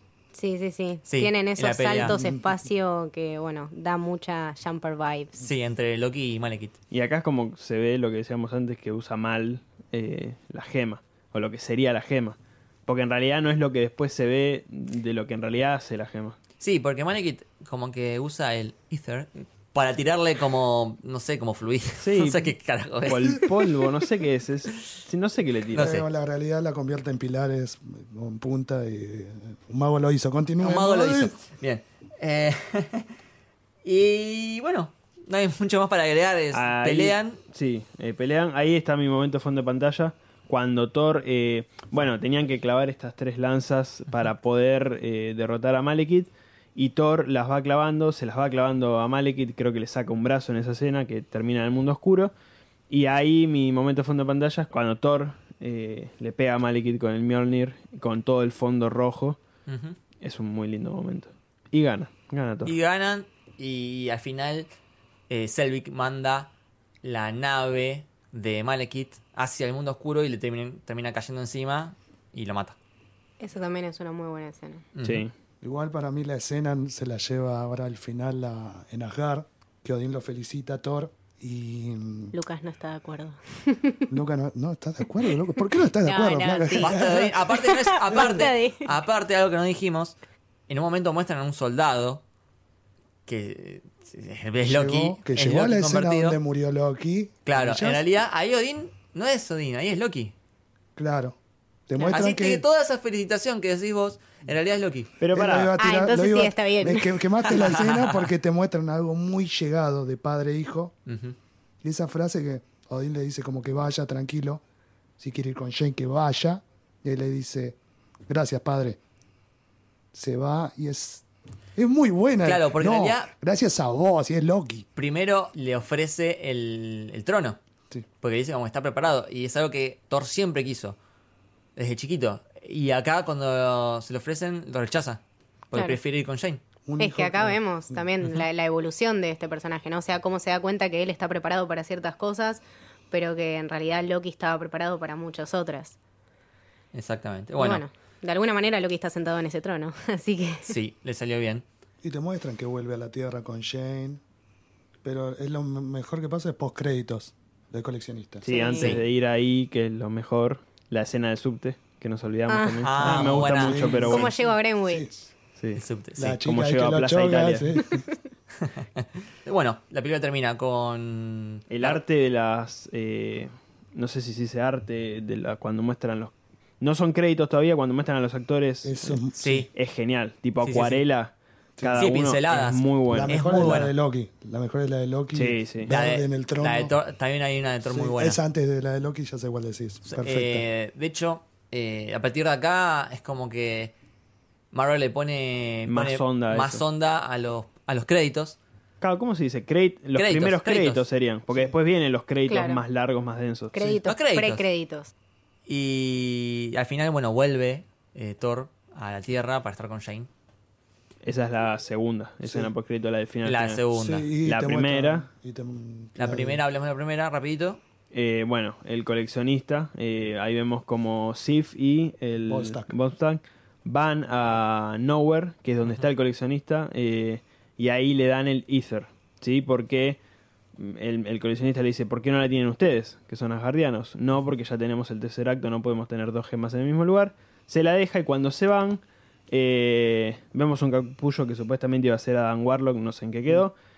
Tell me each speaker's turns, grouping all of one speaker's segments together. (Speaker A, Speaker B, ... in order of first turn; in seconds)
Speaker A: 0.3-5.4, 73.4-74.8, 82.3-84.1, 85.2-88.9, 105.8-107.5, 135.7-136.0, 137.0-146.0, 147.6-150.7, 158.5-158.9, 162.5-162.9, 164.1-165.1, 202.5-202.8, 203.7-205.1
Speaker B: 1.1-2.1, 5.4-6.8, 16.6-23.8, 25.7-26.1, 30.6-33.1, 33.8-37.4, 59.7-60.0, 62.6-64.7, 65.3-66.5, 67.0-72.8, 74.9-75.2, 86.8-90.2, 90.7-92.2, 93.3-96.4, 97.5-100.3, 102.1-105.1, 107.5-108.2, 111.1-111.3, 122.4-123.3, 125.0-127.6, 128.2-131.0, 131.8-136.6, 146.9-147.8, 150.7-151.6, 158.8-159.0, 162.8-164.2, 165.7-166.3, 168.6-172.0, 179.4-179.7, 180.6-181.0, 181.9-183.9, 185.9-188.4, 190.1-193.9, 194.7-198.6, 200.1-201.1, 204.0-204.6, 205.7-210.3, 213.4-214.3, 216.2-217.8
Speaker C: 2.1-2.5, 25.7-31.3, 75.6-82.3, 84.1-87.5, 88.1-88.5, 94.6-98.0, 101.0-101.3, 101.9-102.6, 105.3-110.9, 111.8-114.6, 115.2-117.8, 118.3-119.0, 120.1-121.2, 121.8-124.8, 136.8-138.0, 152.0-154.2, 155.0-158.4, 163.0-165.1, 166.2-168.0, 178.8-179.7, 181.8-182.1, 183.1-186.9, 187.8-190.6, 212.4-212.7, 213.9-216.6, 222.4-222.9
Speaker D: 6.9-16.4, 22.0-22.5, 23.0-25.9, 36.5-52.3, 52.9-59.4, 60.2-62.7, 75.0-75.3, 105.2-105.8, 158.4-164.3, 165.6-168.0, 171.7-179.0, 179.7-183.8, 185.3-185.9, 195.9-196.8, 199.0-204.0, 211.2-213.8, 214.4-215.2, 218.1-230.2, 230.8-243.7